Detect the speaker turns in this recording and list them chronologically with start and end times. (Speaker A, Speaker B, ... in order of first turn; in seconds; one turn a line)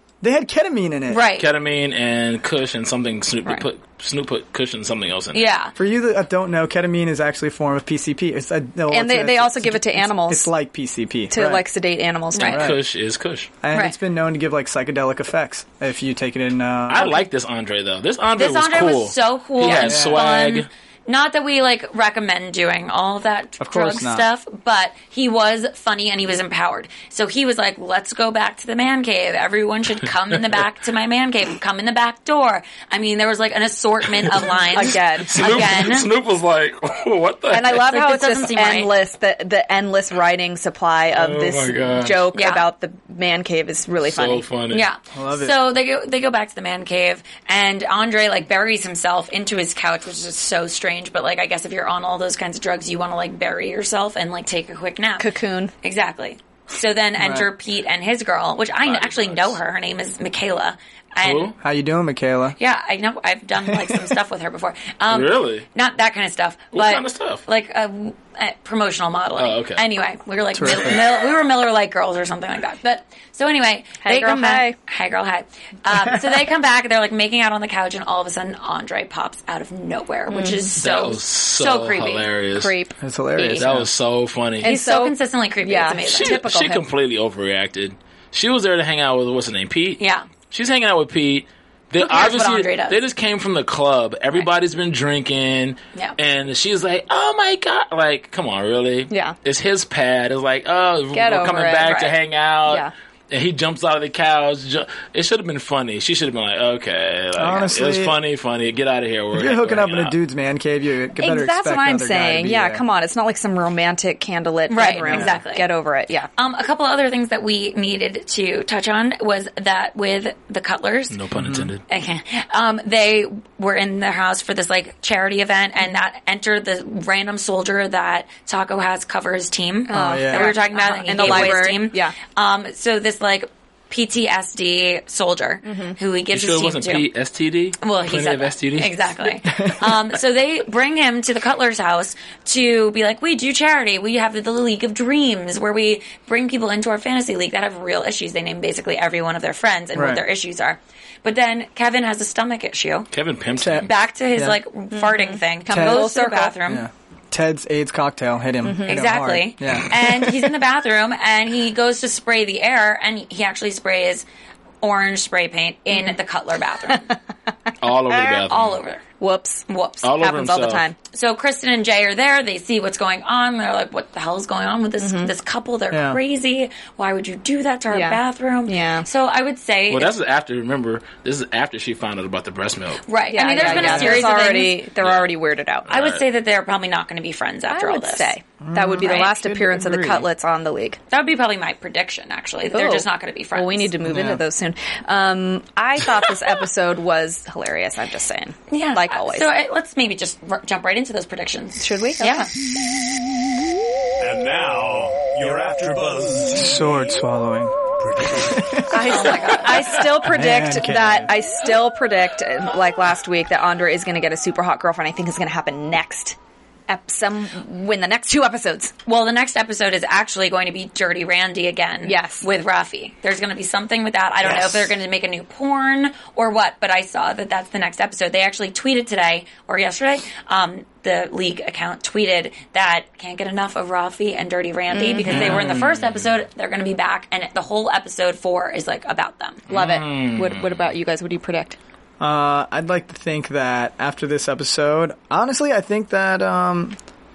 Speaker A: 0.2-1.2
Speaker B: 1.1-1.5
Speaker C: 1.4-5.4
Speaker B: 5.3-5.7
Speaker A: 5.8-11.7
Speaker D: 8.9-10.5
Speaker D: 11.3-12.7
Speaker B: 12.3-12.6
Speaker C: 12.4-13.5
Speaker A: 12.5-12.8
Speaker A: 13.6-17.2
Speaker B: 13.7-14.0
Speaker C: 16.9-20.7
Speaker B: 18.4-36.1
Speaker A: 19.7-20.3
Speaker A: 23.6-24.2
Speaker D: 34.7-35.7
Speaker C: 34.9-37.9
Speaker D: 37.5-44.5
Speaker B: 37.8-38.9
Speaker C: 41.1-42.2
Speaker B: 42.3-42.7
Speaker C: 44.0-44.9
Speaker B: 44.7-55.3
Speaker A: 45.1-45.6
Speaker D: 55.2-55.7
Speaker B: 55.8-61.5
Speaker A: 57.2-57.5
Speaker C: 58.9-59.6
Speaker C: 61.2-61.6
Speaker A: 61.6-62.6
Speaker B: 62.6-82.3
Speaker C: 65.1-65.7
Speaker C: 66.7-67.4
Speaker C: 69.4-69.8
Speaker A: 70.6-71.0
Speaker D: 74.0-74.8
Speaker D: 80.3-80.7
Speaker C: 80.8-82.8
Speaker D: 82.6-83.7
Speaker A: 83.0-83.9
Speaker C: 83.6-84.7
Speaker D: 84.6-86.8
Speaker B: 84.6-86.3
Speaker C: 86.0-110.2
Speaker B: 90.0-90.3
Speaker B: 92.0-93.0
Speaker D: 99.1-99.3
Speaker D: 101.1-101.9
Speaker B: 101.8-102.1
Speaker D: 102.7-102.9
Speaker A: 107.4-108.2
Speaker A: 109.3-112.8
Speaker D: 111.2-116.3
Speaker B: 114.7-115.7
Speaker A: 115.1-115.3
Speaker B: 116.4-121.2
Speaker C: 121.1-121.8
Speaker A: 121.4-121.7
Speaker B: 121.9-137.1
Speaker D: 129.9-132.2
Speaker A: 129.9-130.6
Speaker C: 131.2-131.6
Speaker D: 135.7-136.0
Speaker C: 136.3-139.1
Speaker B: 137.8-153.1
Speaker A: 149.9-150.2
Speaker C: 153.1-153.9
Speaker A: 153.6-154.6
Speaker B: 153.8-156.8
Speaker D: 154.9-156.6
Speaker A: 155.7-156.1
Speaker A: 156.7-160.3
Speaker D: 158.6-159.0
Speaker B: 158.9-164.2
Speaker B: 164.8-167.1
Speaker C: 167.8-168.8
Speaker B: 168.4-169.0
Speaker D: 169.2-169.7
Speaker B: 169.7-170.1
Speaker C: 170.0-170.9
Speaker D: 170.2-171.0
Speaker B: 171.1-180.1
Speaker D: 175.0-175.3
Speaker A: 175.9-176.2
Speaker D: 177.9-179.1
Speaker C: 179.9-183.0
Speaker B: 183.1-184.8
Speaker D: 183.3-185.9
Speaker A: 183.6-184.3
Speaker C: 185.0-185.3
Speaker C: 185.8-186.2
Speaker B: 185.9-188.3
Speaker D: 187.7-191.0
Speaker A: 188.6-190.3
Speaker B: 191.1-193.9
Speaker D: 192.7-199.5
Speaker A: 194.1-194.4
Speaker B: 198.7-202.5
Speaker D: 201.8-202.5
Speaker E: 204.2-207.1
Speaker A: 206.5-207.7
Speaker E: 208.0-208.8
Speaker A: 208.4-208.8
Speaker D: 208.9-216.4
Speaker B: 209.0-210.0
Speaker C: 209.7-210.2
Speaker A: 210.2-211.3
Speaker D: 216.9-218.9
Speaker B: 219.1-239.7
Speaker D: 222.0-222.5
Speaker C: 224.4-224.8
Speaker D: 234.9-235.6
Speaker C: 235.3-236.2
Speaker A: 235.3-235.6
Speaker D: 239.7-241.8
Speaker C: 239.7-240.9
Speaker A: 242.2-247.0